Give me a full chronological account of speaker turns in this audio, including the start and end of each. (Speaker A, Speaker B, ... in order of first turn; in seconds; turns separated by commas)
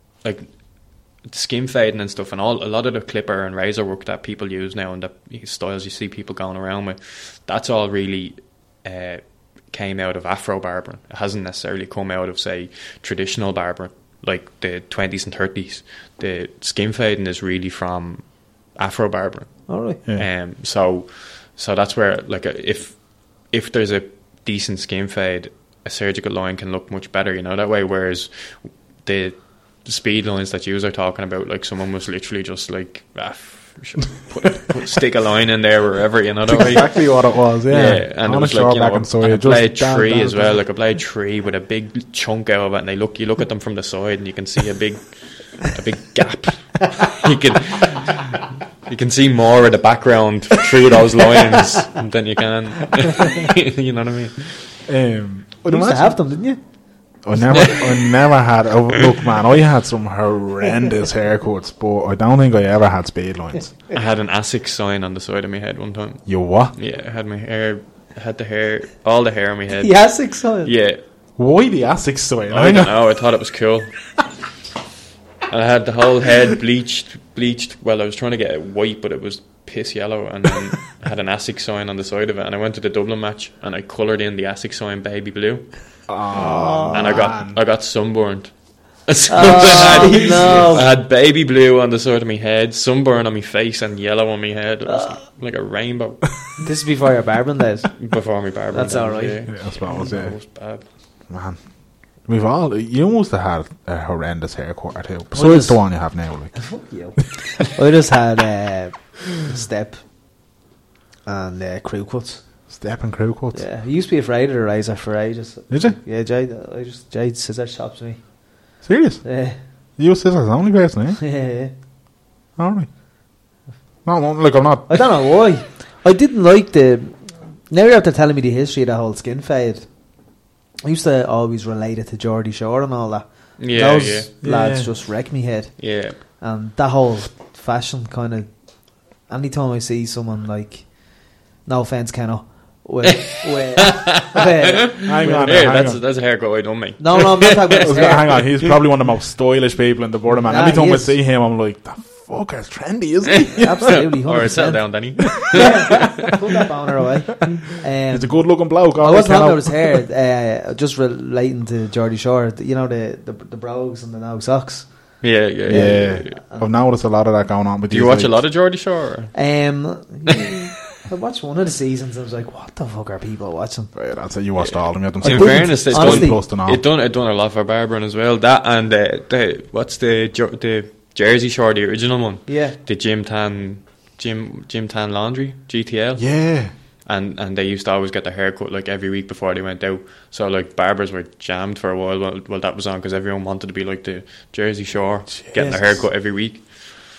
Speaker A: 0.2-54.7, Speaker B: 19.7-20.0, Speaker C: 36.4-40.6, Speaker C: 54.9-56.2, Speaker B: 55.7-56.6, Speaker C: 57.2-63.7, Speaker A: 57.5-58.1, Speaker A: 63.9-71.0, Speaker C: 66.2-66.7, Speaker B: 69.8-70.7, Speaker C: 71.4-72.9, Speaker A: 72.5-74.0, Speaker A: 75.5-86.0, Speaker C: 86.1-87.6, Speaker B: 86.3-87.2, Speaker A: 86.9-96.7, Speaker B: 89.3-90.9, Speaker B: 96.6-98.0, Speaker A: 98.0-100.8, Speaker B: 98.7-99.4, Speaker C: 99.5-100.3, Speaker C: 101.3-101.6, Speaker C: 102.2-106.7, Speaker B: 105.3-105.8, Speaker B: 106.5-110.0, Speaker B: 111.2-112.4, Speaker C: 112.7-113.6, Speaker B: 113.5-118.2, Speaker C: 115.7-116.0, Speaker C: 118.8-119.2, Speaker B: 119.2-119.6, Speaker C: 120.0-121.2, Speaker B: 121.2-121.7, Speaker C: 122.6-122.9, Speaker C: 124.0-125.0, Speaker B: 124.9-129.9, Speaker B: 130.8-138.5, Speaker A: 133.6-134.3, Speaker C: 134.4-134.9, Speaker A: 135.8-136.2, Speaker B: 139.3-145.6, Speaker A: 143.8-148.7, Speaker C: 145.0-146.0, Speaker B: 147.0-148.3, Speaker C: 147.8-153.9, Speaker B: 150.3-151.2, Speaker A: 153.3-156.3, Speaker B: 153.5-166.7, Speaker C: 155.4-155.7, Speaker C: 157.5-160.0, Speaker A: 165.2-166.3, Speaker C: 165.7-168.4, Speaker A: 167.9-169.5, Speaker B: 169.3-173.9, Speaker C: 173.9-176.8, Speaker A: 174.6-186.3, Speaker B: 175.2-176.4, Speaker B: 182.5-182.8, Speaker C: 186.2-186.7, Speaker A: 187.0-197.0, Speaker B: 195.5-195.8